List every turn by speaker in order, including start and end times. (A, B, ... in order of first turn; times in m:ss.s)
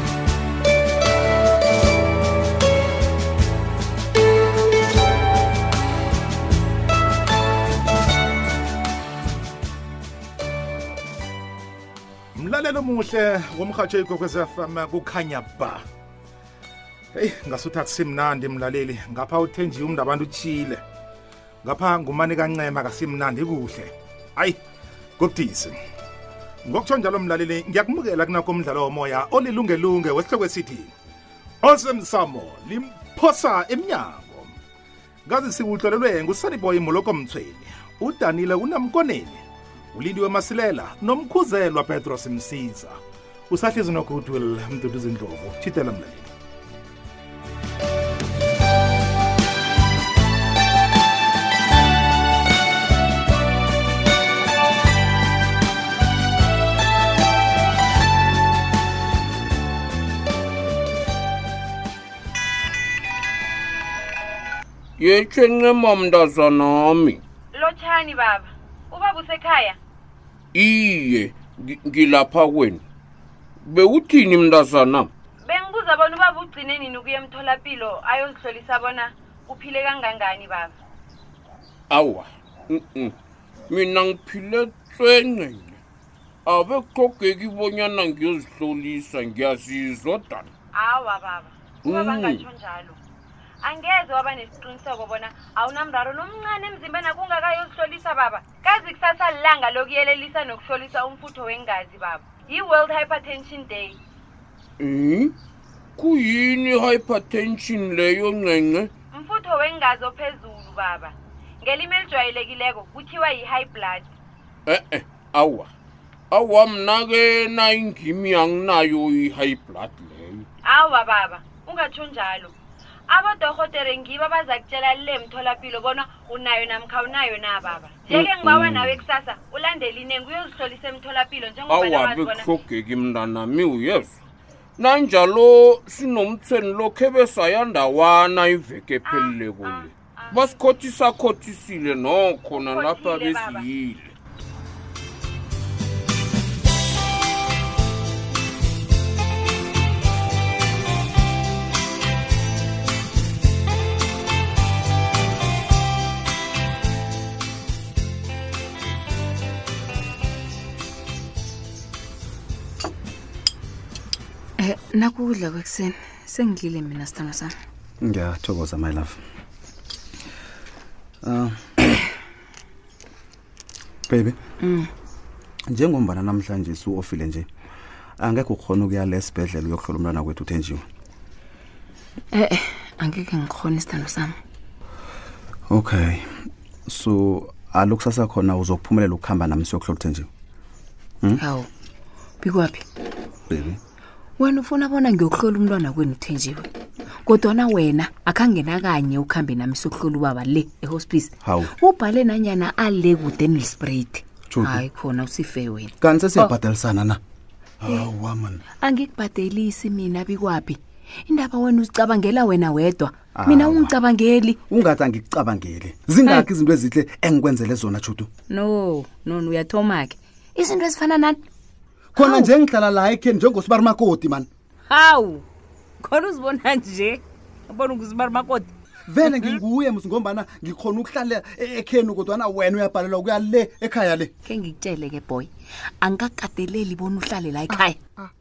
0:12.4-0:15.8 A
0:17.1-0:20.8 A
0:21.6-0:24.6 A
0:25.2-0:25.8 A
0:26.6-0:30.9 A
0:31.6-0:34.6 A
0:35.3-0:43.0 A
0:43.5-0:46.3 A
1:05.0-1:07.2 B
1:07.5-1:09.8 C
1:10.5-1:12.8 B
1:13.6-1:15.1 B
1:15.4-1:20.7 C
1:21.9-1:23.1 B
1:23.7-1:25.8 B
1:26.4-1:30.5 B
1:30.7-1:33.0 C
1:31.8-1:32.4 B
1:33.6-1:44.0 C
1:44.8-1:45.3 B
1:46.0-1:48.9 B
1:49.1-1:54.1 C
1:54.7-1:55.7 B
1:56.3-2:00.4 B
2:00.6-2:02.5 C
2:03.1-2:12.5 C
2:08.1-2:09.0 B
2:11.7-2:14.2 B
2:14.8-2:24.1 B
2:19.1-2:20.5 C
2:22.5-2:23.7 C
2:44.6-2:47.5 D
2:48.0-2:49.2 E
2:51.2-2:51.8 E
2:54.1-2:54.4 E
2:54.6-2:54.9 D
2:55.7-2:57.5 E
2:58.2-3:00.8 E
3:02.3-3:04.4 D
3:05.7-3:10.3 E
3:11.4-3:11.7 D
3:12.4-3:12.8 D
3:13.5-3:13.8 E
3:14.4-3:16.7 D
3:17.2-3:26.5 D
3:21.4-3:21.7 E
3:24.5-3:24.8 E
3:26.0-3:27.2 E
3:27.8-3:28.6 E
3:28.8-3:34.6 D
3:33.3-3:33.9 E
3:34.7-3:38.3 E
3:38.5-3:41.4 D
3:42.1-3:44.5 E
3:42.2-3:42.5 D
3:44.9-3:45.4 D
3:46.0-3:48.7 D
3:49.1-3:54.3 E
3:54.4-3:55.5 D
3:56.0-3:58.0 D